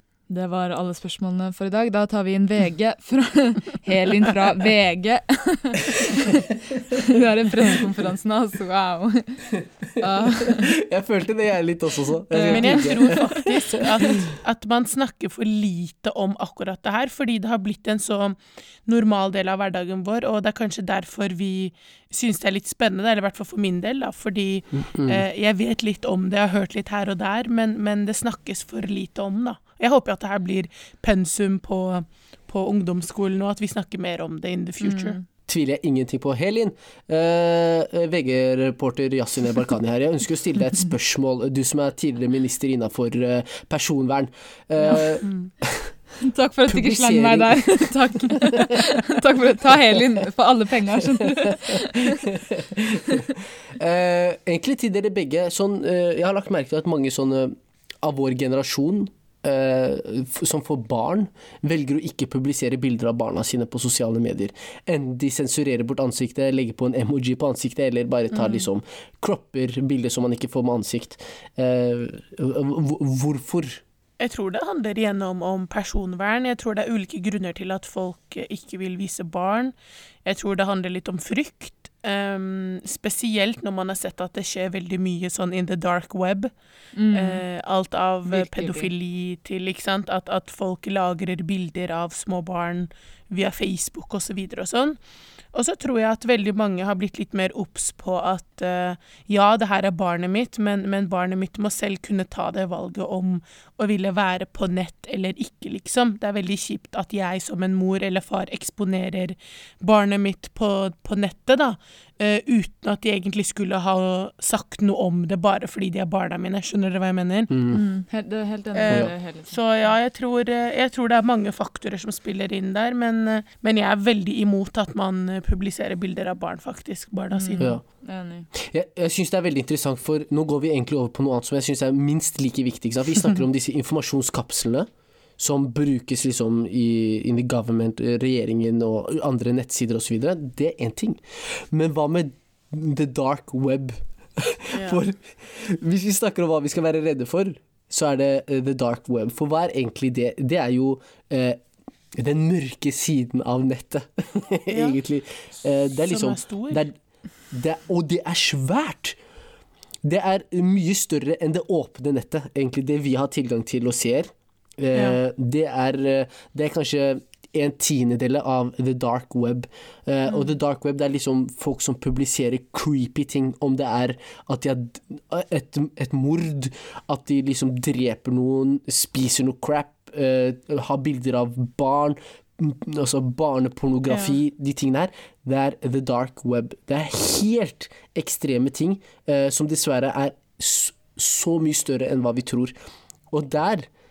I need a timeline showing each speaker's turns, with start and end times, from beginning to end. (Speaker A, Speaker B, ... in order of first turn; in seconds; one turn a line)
Speaker A: 0.3-10.7
Speaker B: 10.2-14.1
Speaker A: 12.3-13.3
Speaker C: 12.5-35.2
Speaker B: 24.7-25.2
Speaker A: 34.8-35.2
Speaker B: 35.5-46.0
Speaker C: 45.2-45.5
Speaker A: 46.2-52.3
Speaker B: 46.7-48.7
Speaker B: 51.4-73.8
Speaker C: 68.3-68.6
Speaker C: 74.2-79.7
Speaker C: 80.2-86.5
Speaker A: 87.0-87.4
Speaker C: 87.1-95.0
Speaker A: 88.3-88.9
Speaker C: 95.5-117.5
Speaker B: 117.5-117.8
Speaker A: 117.7-119.6
Speaker C: 118.7-127.8
Speaker A: 127.3-128.5
Speaker B: 128.5-151.6
Speaker C: 144.7-145.0
Speaker B: 152.1-156.9
Speaker C: 154.7-155.0
Speaker C: 156.1-156.8
Speaker B: 157.5-159.2
Speaker B: 160.0-192.7
Speaker C: 164.9-165.2
Speaker C: 184.1-184.3
Speaker B: 193.3-193.9